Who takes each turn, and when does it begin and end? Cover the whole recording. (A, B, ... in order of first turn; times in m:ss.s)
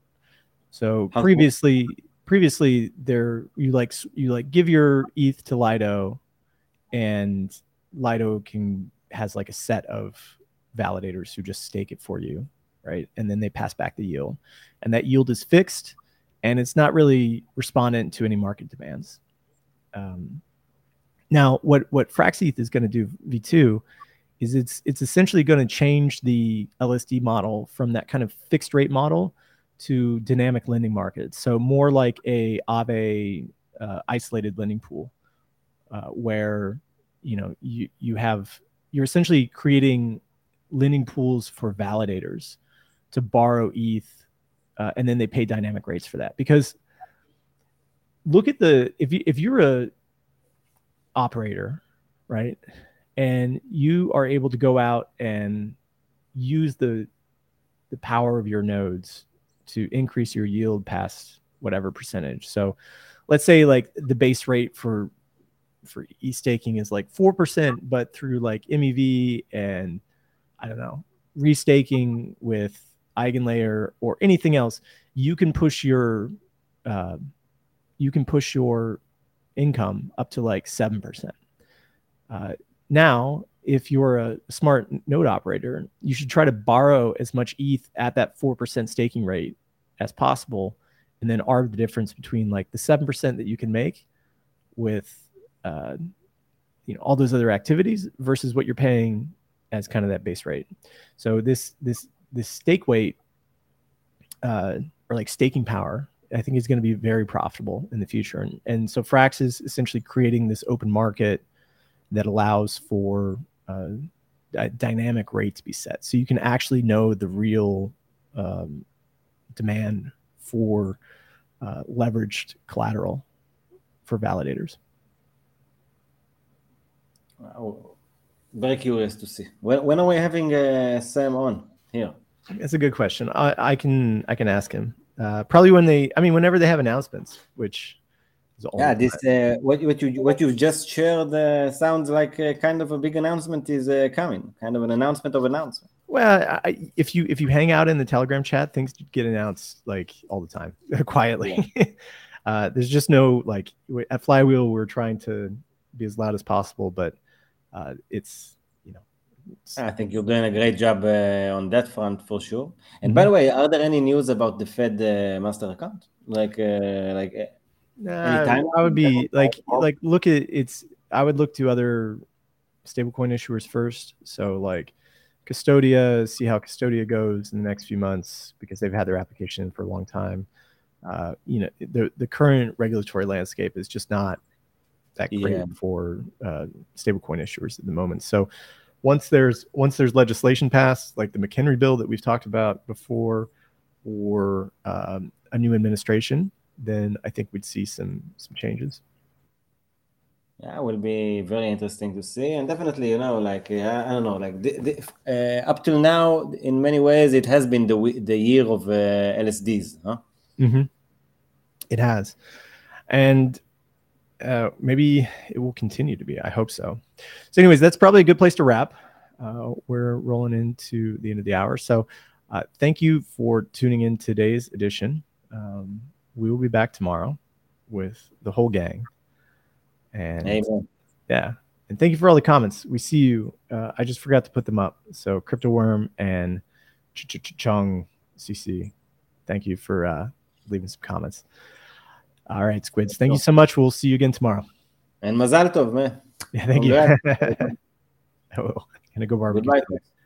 0:00.7-0:06.2 A
0:01.1-0:01.5 B
0:06.9-0:19.2 A
0:19.9-0:20.4 A
0:21.3-0:23.8 A
0:24.4-0:35.1 A
0:35.9-0:42.6 A
0:43.1-0:44.2 A
0:44.8-0:46.8 A
0:48.2-0:49.9 A
0:51.2-0:52.6 A
0:53.2-0:55.8 A
0:56.4-0:57.1 A
0:57.9-1:02.8 A
1:03.3-1:05.1 A
1:05.8-1:10.0 A
1:10.6-1:16.3 A
1:16.9-1:17.2 A
1:18.0-1:19.0 A
1:19.6-1:21.4 A
1:22.3-1:34.0 A
1:34.8-1:36.0 A
1:36.9-1:40.7 A
1:41.2-1:43.2 A
1:44.4-1:51.4 A
1:52.1-1:58.9 A
1:59.5-2:01.0 A
2:01.6-2:03.2 A
2:04.1-2:04.8 A
2:07.4-2:08.0 B
2:08.5-2:12.2 B
2:12.6-2:18.0 A
2:18.6-2:19.2 A
2:18.8-2:25.8 B
2:26.1-2:32.0 A
2:32.5-2:37.2 A
2:37.7-2:39.0 A
2:39.8-2:47.5 B
2:48.0-2:52.2 A
2:48.2-2:49.9 B
2:52.8-2:54.9 A
2:55.5-3:00.5 A
3:01.0-3:04.4 A
3:05.2-3:08.5 A
3:05.3-3:05.7 B
3:09.0-3:13.5 A
3:14.0-3:19.0 A
3:20.6-3:30.2 B
3:30.6-3:30.9 A
3:31.9-3:32.4 A
3:33.1-3:33.6 A
3:34.4-3:47.4 A
3:47.9-3:49.1 A
3:50.1-3:50.6 A
3:50.4-3:50.9 B
3:51.3-3:56.6 A
3:57.1-3:58.9 A
3:59.5-4:01.4 A
4:02.5-4:04.6 A
4:05.2-4:06.2 B
4:06.5-4:07.7 A
4:06.7-4:07.8 B
4:08.5-4:10.0 A
4:09.5-4:10.0 B